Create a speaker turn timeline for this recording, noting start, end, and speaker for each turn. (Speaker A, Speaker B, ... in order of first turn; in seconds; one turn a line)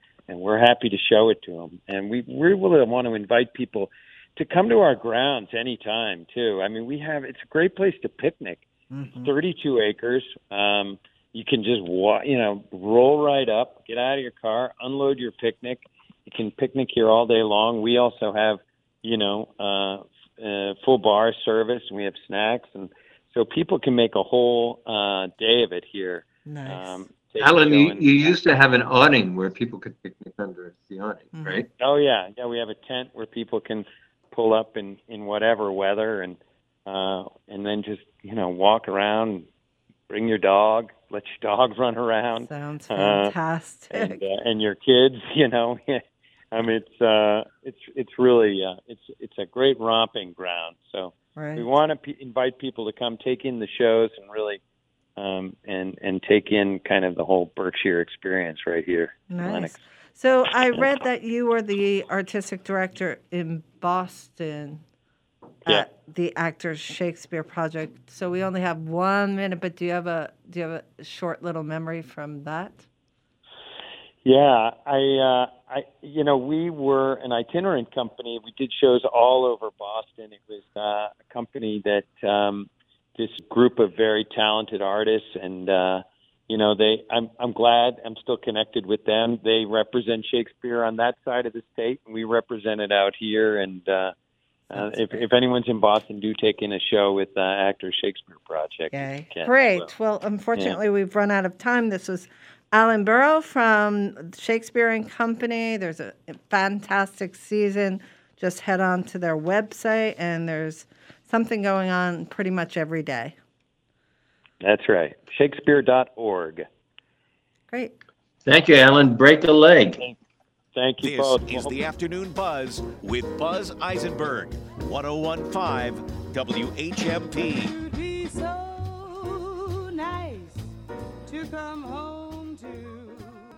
Speaker A: 0.3-8.7
Speaker B: 8.9-9.3
Speaker A: 9.2-28.3
Speaker B: 26.4-27.1
Speaker C: 27.4-31.7
Speaker B: 31.3-31.6
Speaker A: 31.8-39.5
Speaker A: 40.1-43.4
Speaker B: 42.4-44.2
Speaker A: 43.9-54.6
Speaker B: 51.4-51.7
Speaker A: 55.2-59.8
Speaker B: 59.3-64.8
Speaker B: 65.7-72.8
Speaker A: 74.2-94.1
Speaker B: 94.7-95.2
Speaker A: 94.7-99.9
Speaker B: 98.9-113.4
Speaker A: 114.6-116.7
Speaker B: 117.7-118.0
Speaker C: 118.5-120.0
Speaker A: 120.7-121.8
Speaker D: 121.0-127.8
Speaker E: 127.8-130.6
Speaker E: 131.3-133.3